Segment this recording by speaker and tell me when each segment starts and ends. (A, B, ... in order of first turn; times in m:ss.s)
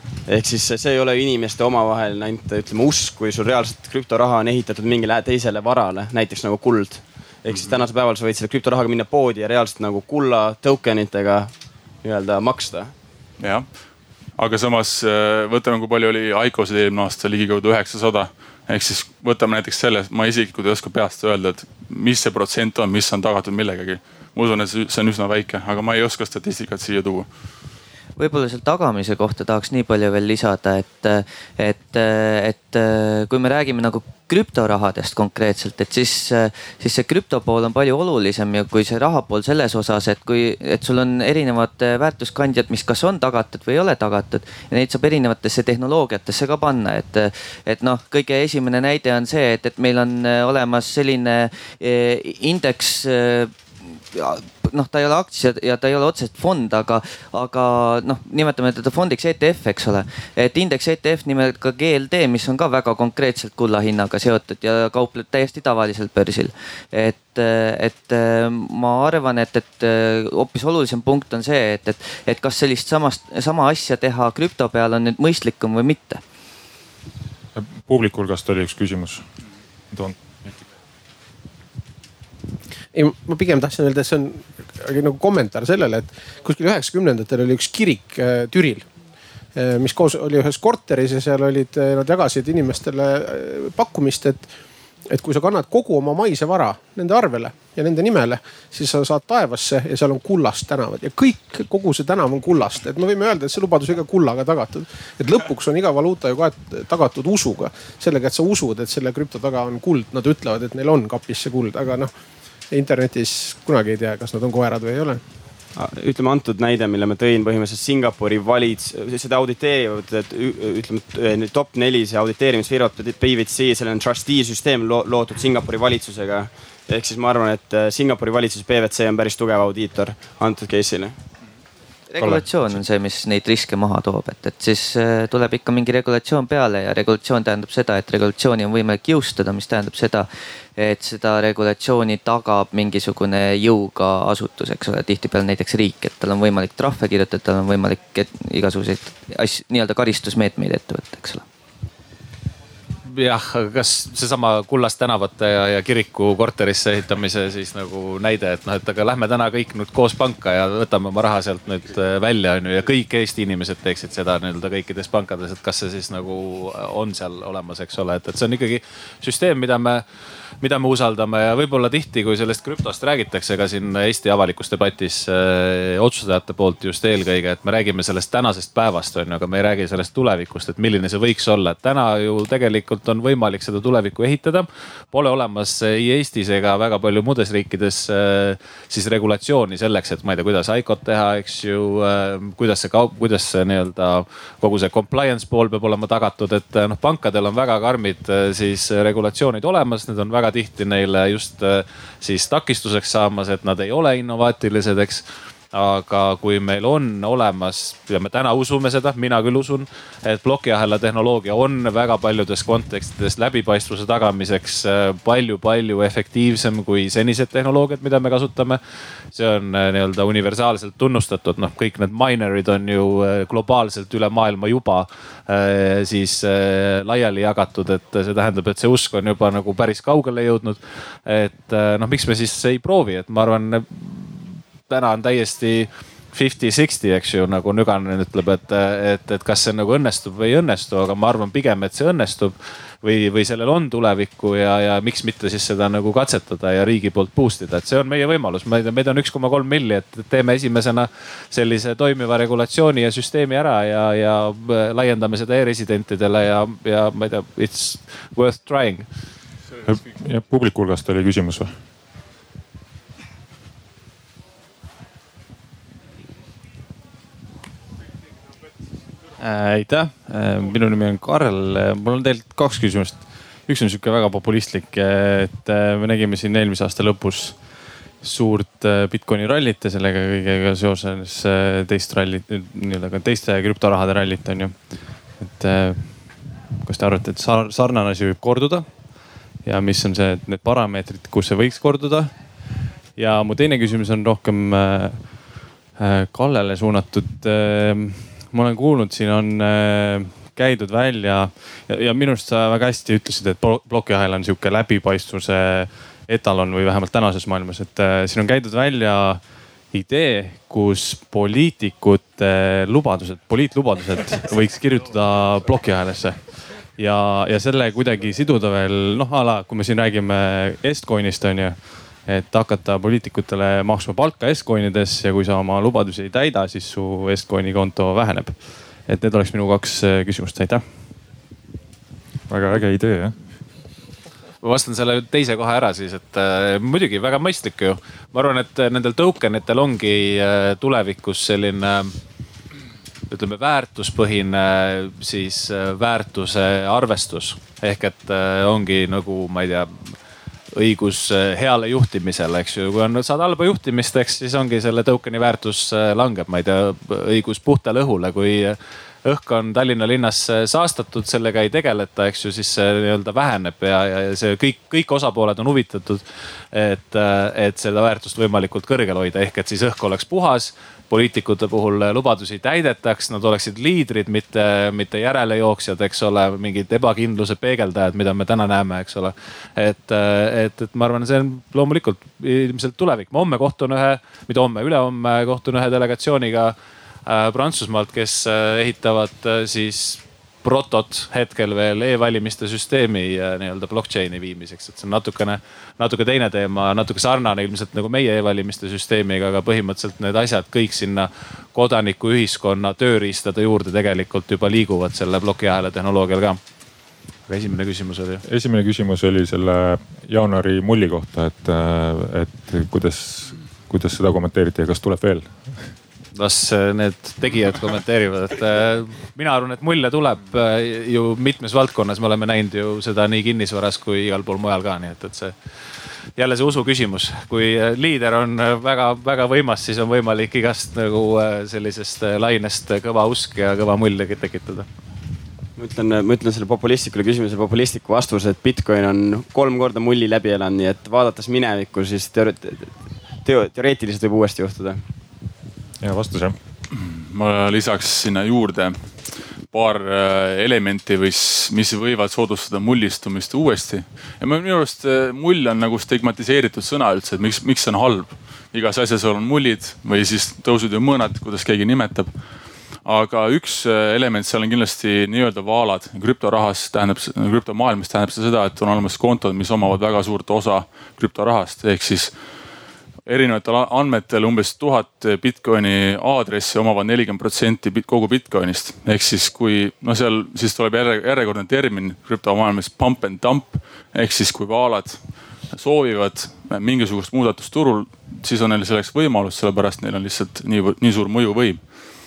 0:00.2-0:11.5 A
0:07.5-0:07.8 B
0:12.0-0:12.9 A
0:13.4-0:13.7 B
0:14.4-0:27.3 B
0:28.2-0:53.5 C
0:54.1-1:16.2 C
1:17.5-1:19.2 D
1:19.9-1:20.5 D
1:22.9-1:28.9 E
1:29.5-1:34.5 E
1:35.1-1:52.1 E
1:52.7-1:55.2 E
1:55.7-2:11.1 A
2:12.1-2:31.4 C
2:33.0-2:50.0 F
2:50.6-3:38.8 F
3:39.3-4:19.1 F
4:19.8-4:21.7 D
4:29.4-5:30.9 G
5:32.5-5:33.3 D
5:34.6-5:42.2 F
5:43.3-5:50.1 F
5:50.7-6:06.2 F
6:06.7-6:26.7 F
6:27.2-6:46.6 F
6:47.5-6:48.4 F
6:48.4-6:55.9 D
6:56.3-7:05.5 F
7:06.4-7:14.8 F
7:15.8-7:25.0 A
7:26.0-7:26.6 D
7:26.9-7:29.1 B
7:29.7-7:42.3 B
7:43.0-7:52.3 B
7:53.2-8:11.8 B